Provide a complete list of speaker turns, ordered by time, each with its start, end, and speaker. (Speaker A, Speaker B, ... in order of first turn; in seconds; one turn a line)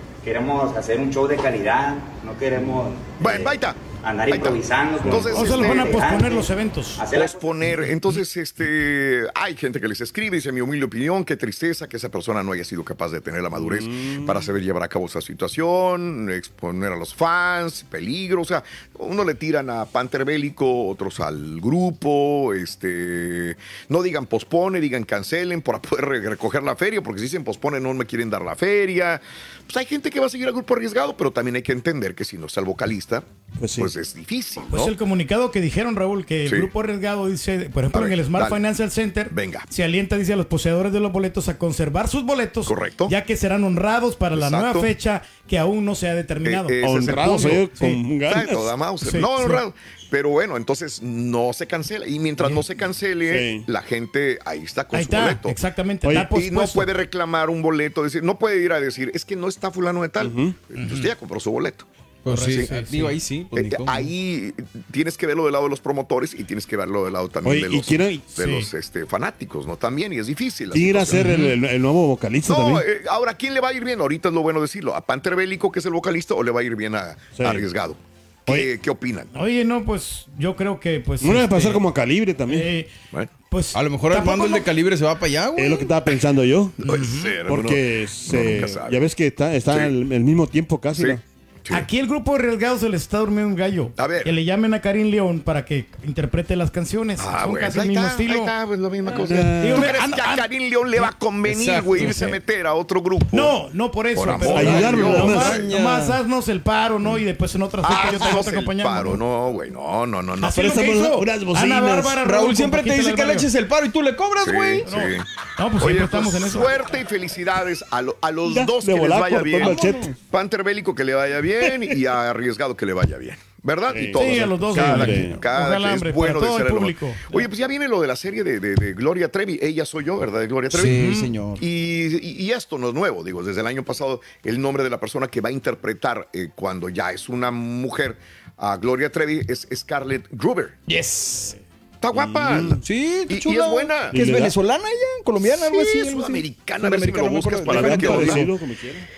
Speaker A: 0.2-7.4
Speaker B: 3.2-6.0
Speaker C: 5.3-7.0
Speaker B: 7.1-33.2
Speaker D: 13.6-14.5
Speaker D: 33.6-33.9
Speaker B: 33.8-34.9
Speaker C: 34.7-48.0
Speaker B: 36.5-36.7
Speaker B: 37.9-38.6
Speaker B: 39.3-39.7
Speaker B: 42.7-43.1
Speaker B: 44.3-44.9
Speaker B: 46.4-47.7
Speaker D: 46.8-48.7
Speaker B: 48.2-55.6
Speaker C: 49.0-49.6
Speaker D: 53.3-53.7
Speaker C: 54.9-56.9
Speaker D: 56.0-56.3
Speaker B: 56.3-62.7
Speaker D: 60.2-60.6
Speaker C: 60.8-61.1
Speaker E: 62.2-64.1
Speaker C: 62.3-63.2
Speaker B: 63.5-71.4
Speaker D: 67.4-68.2
Speaker C: 68.3-68.7
Speaker D: 70.7-72.9
Speaker C: 71.1-71.5
Speaker B: 72.5-79.3
Speaker D: 77.4-77.7
Speaker C: 79.3-81.8
Speaker D: 81.2-82.7
Speaker C: 82.5-82.9
Speaker C: 83.5-84.7
Speaker E: 83.7-86.0
Speaker D: 85.6-86.8
Speaker B: 86.8-89.0
Speaker C: 86.8-87.4
Speaker D: 87.5-91.2
Speaker B: 89.7-89.9
Speaker B: 90.9-91.9
Speaker C: 91.7-98.5
Speaker B: 94.0-94.3
Speaker B: 97.2-103.5
Speaker E: 99.1-99.4
Speaker D: 99.2-99.9
Speaker C: 99.5-101.1
Speaker E: 101.4-102.1
Speaker C: 101.9-102.4
Speaker C: 103.3-109.2
Speaker B: 104.1-105.6
Speaker D: 104.5-105.6
Speaker E: 104.6-106.2
Speaker B: 107.8-110.8
Speaker C: 110.4-113.5
Speaker D: 110.5-112.2
Speaker E: 112.2-114.9
Speaker B: 114.4-115.3
Speaker C: 114.8-116.8
Speaker B: 115.8-140.8
Speaker D: 118.5-120.1
Speaker E: 119.6-120.2
Speaker D: 121.6-122.0
Speaker D: 123.9-125.4
Speaker C: 124.1-127.4
Speaker E: 130.7-131.6
Speaker C: 130.9-131.3
Speaker E: 140.9-141.6
Speaker B: 142.0-144.3
Speaker D: 142.2-142.8
Speaker E: 142.8-148.5
Speaker D: 144.1-144.6
Speaker B: 145.4-148.5
Speaker D: 147.7-149.1